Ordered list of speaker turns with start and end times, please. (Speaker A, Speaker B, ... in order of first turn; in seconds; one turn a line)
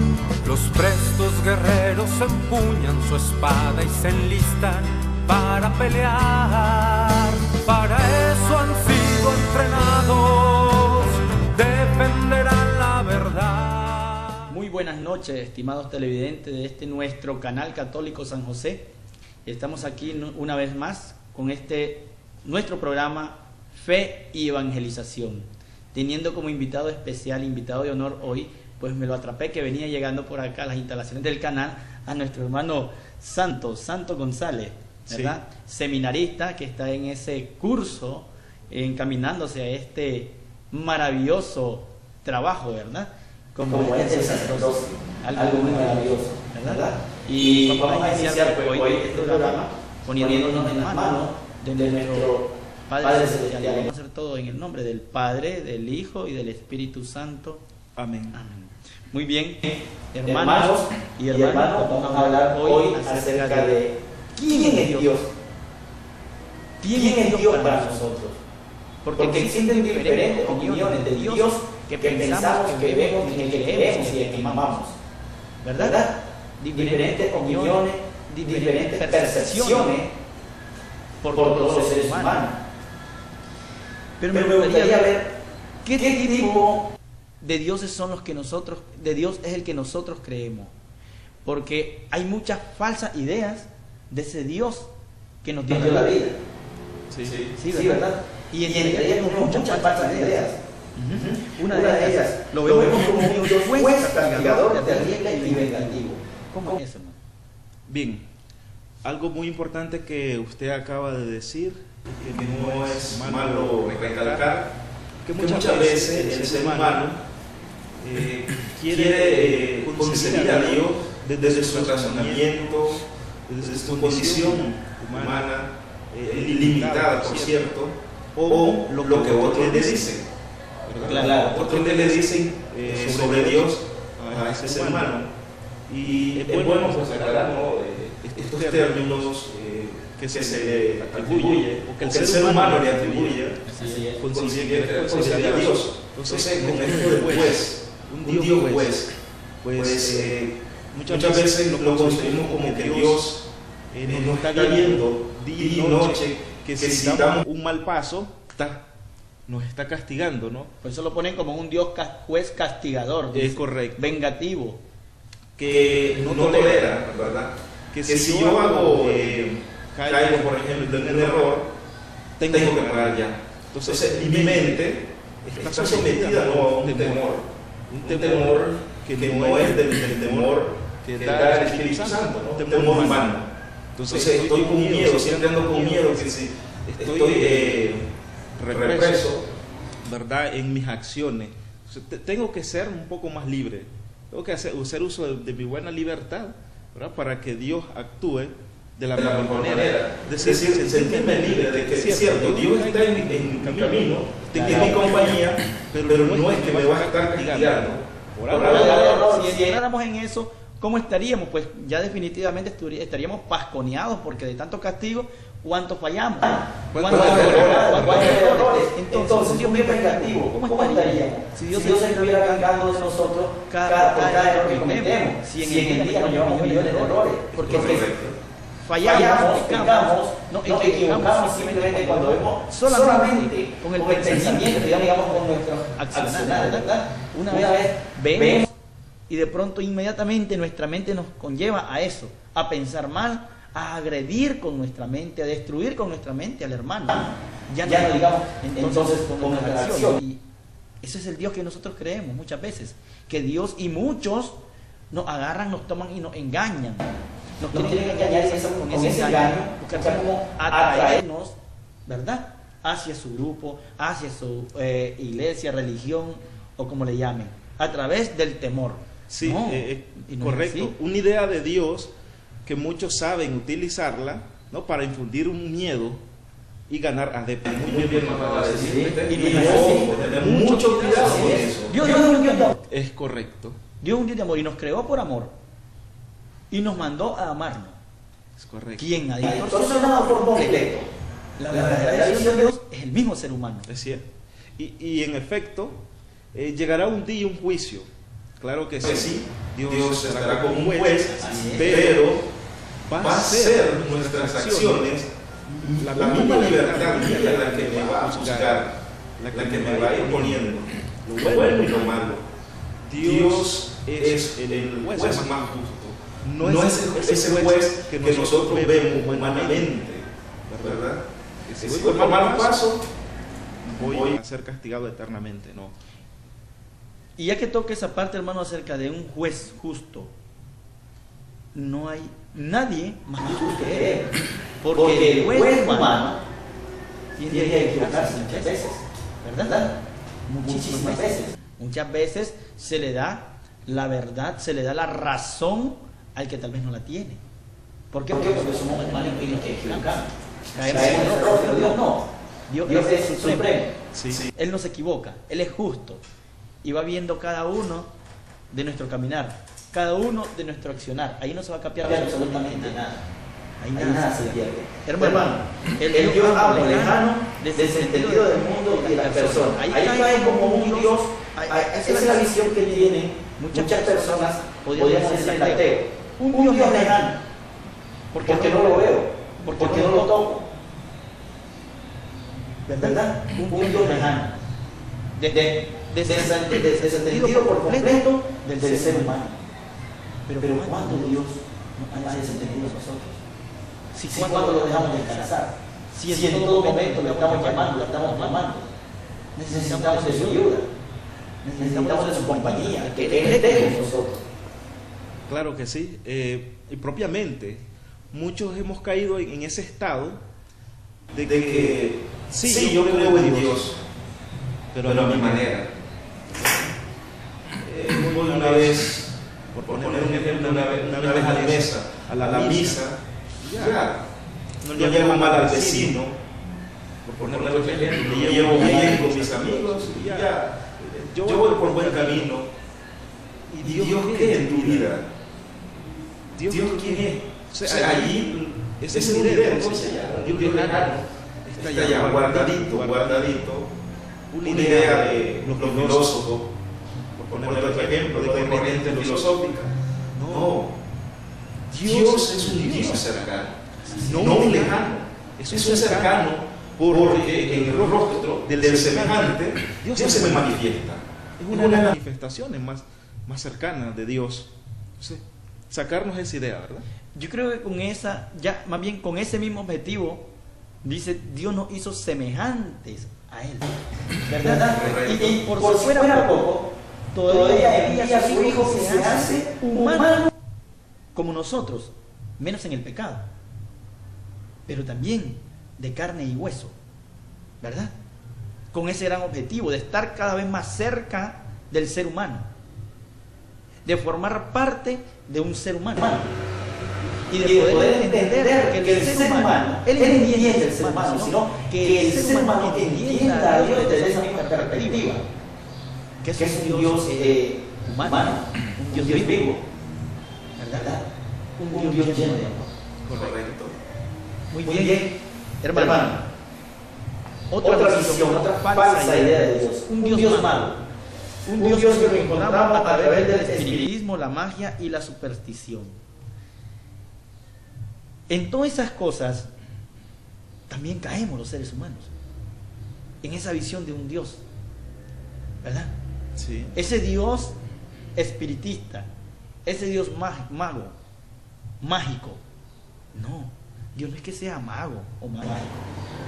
Speaker A: 0.4-14.5
Speaker B: 14.5-18.9
Speaker B: 19.4-57.6
Speaker C: 35.1-35.4
Speaker D: 43.7-53.9
Speaker C: 58.0-58.4
Speaker B: 58.3-63.8
Speaker D: 60.2-65.3
Speaker B: 64.3-65.2
Speaker B: 66.8-68.2
Speaker D: 66.9-68.4
Speaker B: 69.0-74.8
Speaker D: 69.1-74.9
Speaker B: 75.6-80.0
Speaker D: 75.8-80.1
Speaker B: 81.2-82.5
Speaker D: 81.3-82.6
Speaker B: 84.2-85.2
Speaker D: 84.3-85.4
Speaker B: 85.8-86.6
Speaker D: 86.0-86.9
Speaker B: 87.4-90.7
Speaker B: 91.4-94.9
Speaker B: 95.4-96.2
Speaker D: 95.7-96.3
Speaker C: 97.1-97.4
Speaker B: 97.6-107.2
Speaker D: 97.6-100.6
Speaker D: 101.1-106.8
Speaker C: 107.9-108.2
Speaker C: 109.0-114.6
Speaker E: 112.4-114.6
Speaker C: 115.2-117.2
Speaker E: 115.4-117.1
Speaker C: 118.0-122.9
Speaker E: 118.9-120.9
Speaker E: 121.4-122.6
Speaker C: 123.5-125.6
Speaker E: 123.7-124.5
Speaker E: 125.2-125.6
Speaker C: 126.1-130.2
Speaker E: 126.3-127.4
Speaker E: 128.5-130.1
Speaker C: 130.9-135.2
Speaker D: 131.0-131.7
Speaker E: 131.5-133.7
Speaker E: 134.3-135.2
Speaker C: 135.9-137.6
Speaker E: 136.1-143.5
Speaker C: 138.2-139.5
Speaker C: 140.2-143.6
Speaker B: 143.7-144.2
Speaker D: 143.7-144.2
Speaker C: 144.2-149.1
Speaker E: 144.2-149.1
Speaker C: 149.6-153.3
Speaker E: 149.8-150.6
Speaker E: 151.1-153.4
Speaker C: 153.9-158.8
Speaker E: 154.1-157.4
Speaker C: 159.5-160.7
Speaker B: 160.8-164.8
Speaker C: 163.3-164.1
Speaker C: 165.6-167.4
Speaker E: 165.7-167.0
Speaker C: 167.9-171.7
Speaker E: 168.1-169.5
Speaker E: 170.1-171.5
Speaker C: 172.4-183.4
Speaker E: 172.5-173.3
Speaker E: 173.9-174.9
Speaker E: 175.6-183.5
Speaker C: 184.0-188.0
Speaker E: 184.1-188.0
Speaker C: 188.6-189.3
Speaker E: 188.7-189.4
Speaker C: 190.0-208.9
Speaker E: 199.2-208.0
Speaker B: 204.5-205.0
Speaker D: 204.6-205.0
Speaker D: 208.5-209.8
Speaker B: 208.5-228.2
Speaker D: 216.5-228.1
Speaker C: 216.9-218.4
Speaker C: 227.6-228.3
Speaker B: 228.8-238.7
Speaker D: 229.0-238.7
Speaker B: 239.3-250.4
Speaker D: 247.8-250.2
Speaker B: 251.0-254.6
Speaker B: 255.1-270.9
Speaker D: 257.7-261.2
Speaker C: 269.3-272.1
Speaker C: 272.6-276.2
Speaker C: 276.9-281.9
Speaker E: 277.7-279.2
Speaker D: 278.9-280.1
Speaker B: 279.2-282.8
Speaker E: 279.8-281.1
Speaker D: 281.1-282.8
Speaker C: 282.9-283.8
Speaker B: 284.0-285.5
Speaker B: 286.7-288.0
Speaker C: 288.6-289.2
Speaker B: 289.0-291.0
Speaker D: 289.4-291.1
Speaker B: 291.6-293.9
Speaker D: 291.7-292.7
Speaker C: 293.9-294.2
Speaker C: 294.8-296.0
Speaker C: 296.5-298.1
Speaker C: 298.6-302.4
Speaker E: 299.1-302.4
Speaker B: 301.3-301.9
Speaker D: 301.4-302.1
Speaker C: 303.1-305.2
Speaker E: 303.2-305.3
Speaker E: 305.9-308.9
Speaker C: 305.9-312.2
Speaker E: 309.5-310.9
Speaker E: 311.4-312.4
Speaker C: 313.1-320.0
Speaker E: 313.1-316.0
Speaker E: 316.6-320.2
Speaker C: 320.7-321.1
Speaker E: 320.8-321.2
Speaker C: 321.7-322.9
Speaker E: 321.8-323.0
Speaker C: 323.8-325.8
Speaker B: 327.4-330.3
Speaker B: 331.7-334.3
Speaker D: 333.4-334.3
Speaker B: 334.8-336.3
Speaker D: 334.9-336.4
Speaker B: 337.4-339.9
Speaker D: 337.5-339.0
Speaker D: 339.6-339.9
Speaker B: 340.5-347.4
Speaker D: 340.6-341.6
Speaker B: 348.1-353.8
Speaker D: 348.3-352.2
Speaker D: 352.9-353.9
Speaker C: 354.1-354.5
Speaker B: 354.4-356.2
Speaker B: 356.8-358.1
Speaker B: 358.7-363.1
Speaker D: 362.0-363.2
Speaker B: 363.8-377.3
Speaker D: 363.9-377.4
Speaker B: 378.3-380.5
Speaker D: 378.4-380.7
Speaker B: 382.9-384.5
Speaker D: 383.0-384.5
Speaker B: 385.4-389.4
Speaker D: 385.5-389.6
Speaker B: 390.5-393.1
Speaker D: 390.6-393.4
Speaker B: 394.1-398.7
Speaker D: 394.3-395.7
Speaker D: 396.3-398.9
Speaker B: 399.6-400.8
Speaker D: 399.6-400.9
Speaker B: 401.6-404.2
Speaker D: 401.8-404.4
Speaker C: 405.5-410.4
Speaker C: 411.3-413.9
Speaker E: 411.4-413.9
Speaker C: 414.9-415.8
Speaker E: 415.1-415.8
Speaker C: 417.9-424.1
Speaker E: 418.2-419.2
Speaker E: 419.9-423.1
Speaker E: 423.8-424.2
Speaker C: 424.8-426.2
Speaker E: 424.9-426.3
Speaker C: 427.2-432.6
Speaker E: 427.4-430.7
Speaker E: 431.4-432.6
Speaker C: 433.8-435.3
Speaker C: 436.6-443.8
Speaker E: 436.7-441.2
Speaker E: 441.8-443.5
Speaker C: 444.5-446.5
Speaker E: 444.6-446.7
Speaker C: 447.4-449.7
Speaker E: 447.5-449.8
Speaker C: 450.3-450.9
Speaker E: 450.5-450.9
Speaker C: 451.9-453.6
Speaker E: 452.1-453.8
Speaker B: 454.0-454.7
Speaker C: 454.2-461.1
Speaker E: 454.4-456.6
Speaker E: 457.1-461.0
Speaker C: 461.6-467.1
Speaker E: 461.7-462.0
Speaker B: 467.4-470.5
Speaker B: 471.0-476.8
Speaker D: 474.5-476.9
Speaker B: 477.3-480.5
Speaker D: 477.4-480.5
Speaker B: 481.4-483.5
Speaker B: 484.9-486.9
Speaker B: 487.8-488.1
Speaker B: 488.9-492.7
Speaker B: 494.1-496.4
Speaker D: 496.2-496.5
Speaker B: 497.5-505.4
Speaker D: 497.5-505.4
Speaker B: 506.4-509.7
Speaker D: 506.6-509.8
Speaker B: 510.8-511.2
Speaker D: 510.9-511.3
Speaker B: 511.8-512.9
Speaker D: 511.8-512.8
Speaker C: 513.2-513.8
Speaker B: 514.7-515.3
Speaker D: 514.8-515.4
Speaker B: 515.8-516.4
Speaker D: 515.9-516.4
Speaker B: 517.7-520.9
Speaker D: 517.8-521.0
Speaker B: 521.6-526.2
Speaker D: 521.8-524.1
Speaker B: 528.5-529.7
Speaker B: 530.9-532.3
Speaker B: 533.4-534.6
Speaker B: 535.8-536.1
Speaker C: 536.6-536.9
Speaker B: 536.9-537.8
Speaker B: 538.4-539.3
Speaker B: 539.8-541.1
Speaker B: 542.0-542.6
Speaker B: 543.3-545.9